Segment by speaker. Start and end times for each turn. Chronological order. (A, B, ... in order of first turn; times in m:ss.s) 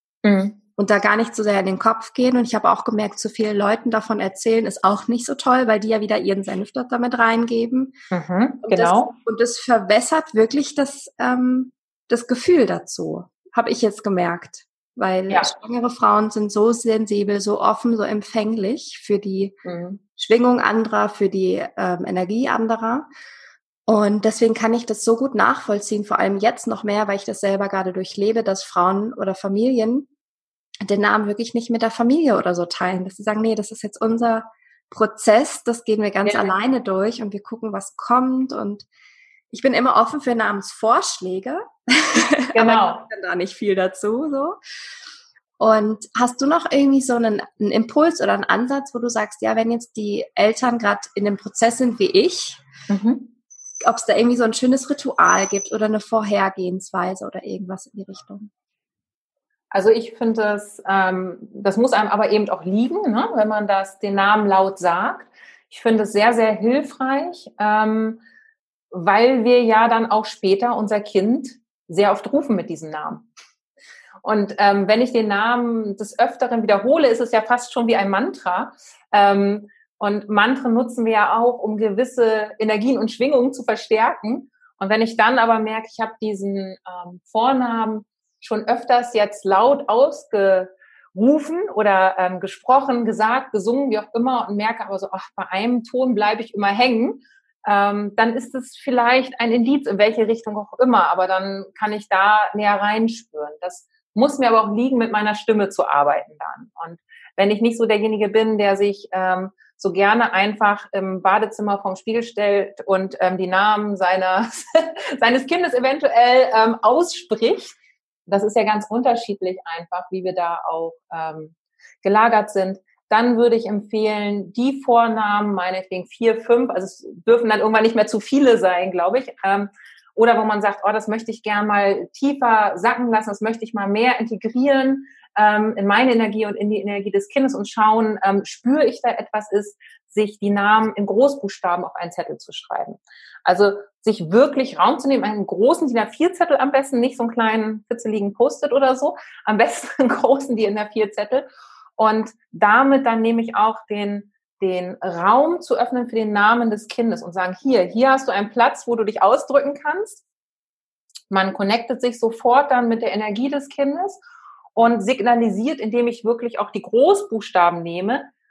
0:00.2-0:00.6 A
0:00.8-0:08.0 B
0:08.1-0:09.1 A
0:08.6-0:19.6 B
0:19.6-0:20.0 A
0:20.2-0:23.1 B
0:23.9-0:30.1 B
0:30.8-0:38.8 B
0:36.3-0:36.5 A
0:39.5-0:44.6 B
0:42.5-0:43.0 A
0:45.6-0:52.6 B
0:52.9-0:53.3 A
0:53.8-0:58.5 B
0:59.7-1:08.2 A
1:08.9-1:13.3 A
1:14.2-2:40.2 A
2:41.3-2:44.2 A
2:44.8-2:48.3 A